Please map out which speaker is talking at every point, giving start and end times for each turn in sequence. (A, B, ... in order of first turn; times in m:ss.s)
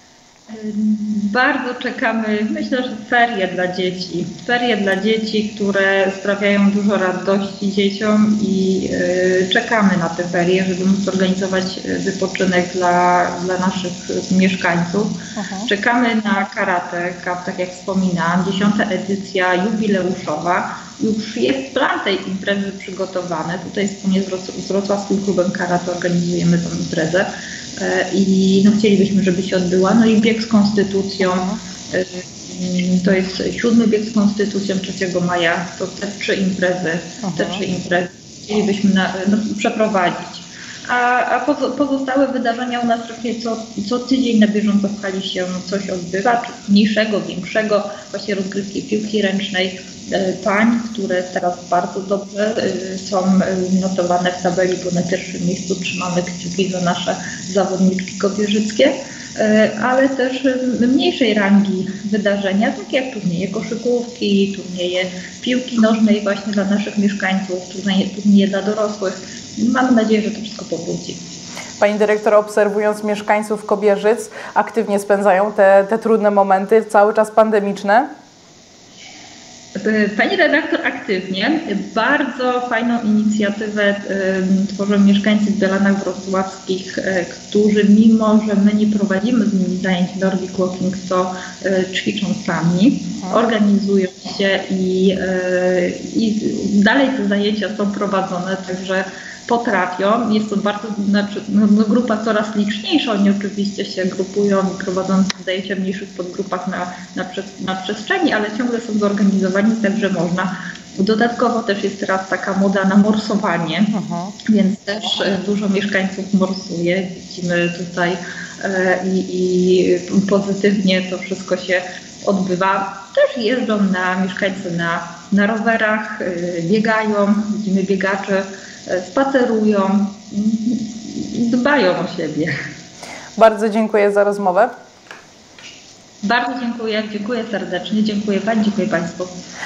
0:00.5-1:11.2 A
0:15.4-0:15.7 B
0:31.2-0:31.6 B
0:37.2-0:37.6 B
1:11.8-1:18.1 B
1:19.8-1:53.9 A
1:53.9-1:54.3 B
1:54.5-2:12.5 A
2:13.4-2:14.7 B
2:16.2-2:19.3 A